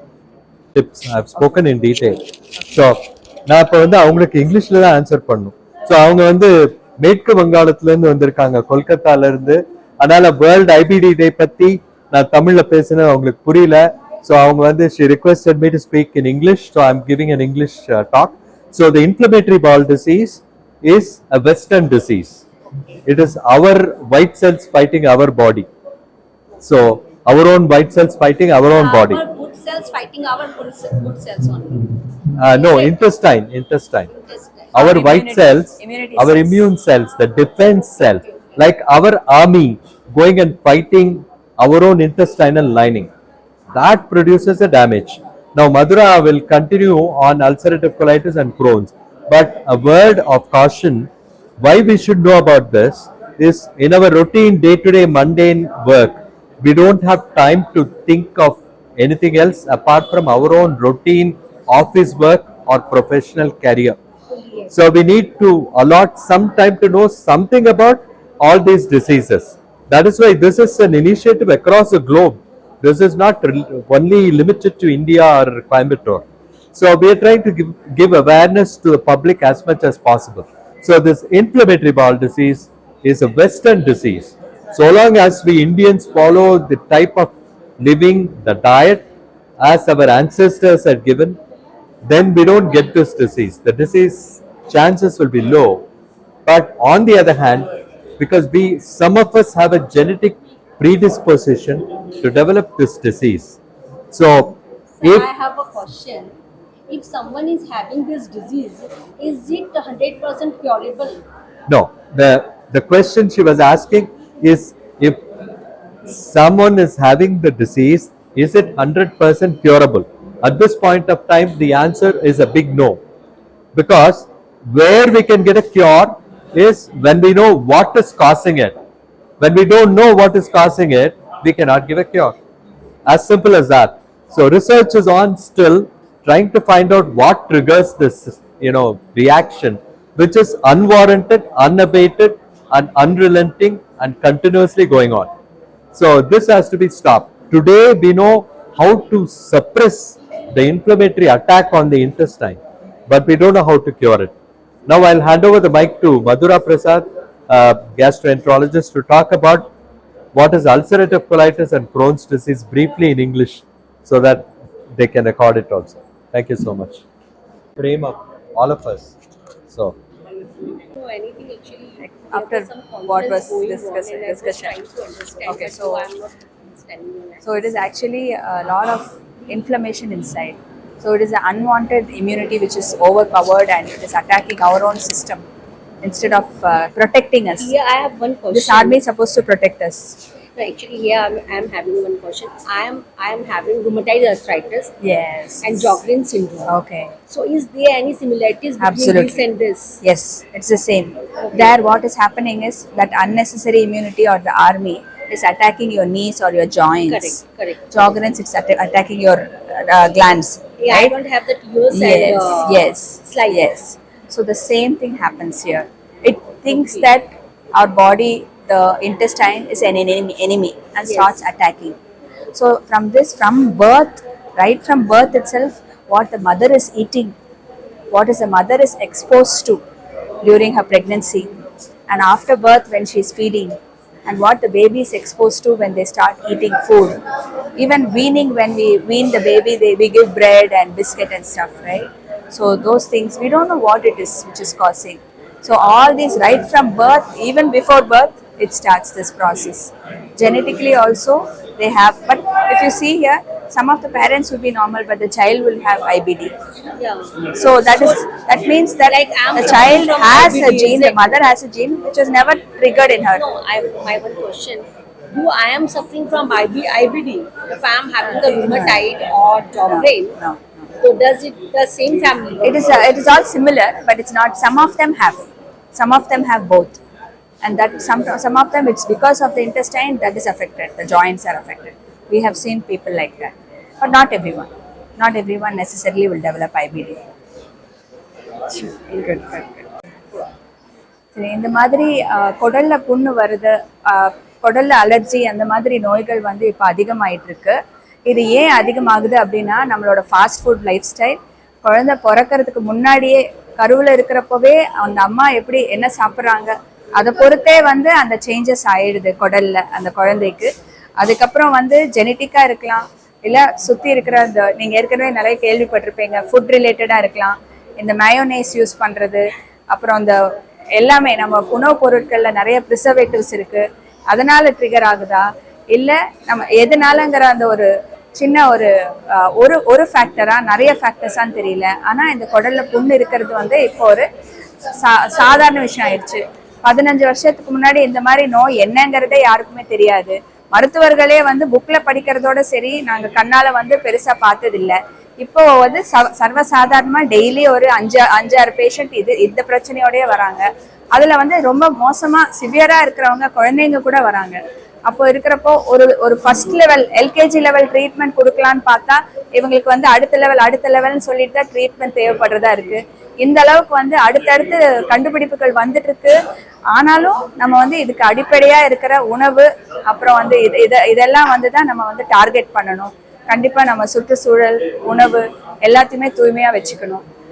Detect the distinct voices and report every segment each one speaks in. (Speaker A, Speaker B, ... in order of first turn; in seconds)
Speaker A: 0.7-22.4, 23.1-25.7, 26.6-29.2, 32.4-34.1, 34.7-43.1, 43.7-51.1, 51.6-64.0, 64.7-89.0, 89.6-91.4, 92.0-95.8, 96.5-103.6, 104.1-105.3, 111.7-115.2, 116.0-123.0, 123.7-128.7, 129.4-132.4, 133.1-145.3, 145.9-154.3, 154.9-159.7, 160.3-167.0, 167.8-169.1, 169.7-169.9
Speaker B: 28.8-31.9, 32.5-33.0, 34.1-34.7, 105.0-106.3, 106.9-111.2, 170.3-177.7, 187.6-189.0, 190.6-194.9, 195.6-196.7, 197.3-200.0, 201.4-201.7, 207.1-207.8, 210.8-213.7, 216.7-217.1, 221.1-221.3, 257.0-257.4, 257.9-258.2, 259.0-261.3, 263.3-270.4, 271.0-273.1
Speaker C: 34.8-36.6, 172.2-174.7, 175.4-176.0, 177.4-185.4, 186.0-187.7, 188.5-190.2, 195.0-195.9, 196.7-197.1, 198.8-199.4, 200.0-211.2, 211.9-222.0, 222.5-227.3, 228.1-229.8, 230.4-231.5, 232.1-237.2, 237.8-256.5, 257.5-263.4, 268.4-269.0, 269.9-270.6, 272.6-277.0, 277.6-287.2, 288.7-289.8, 291.3-334.3, 334.9-366.4, 366.9-377.2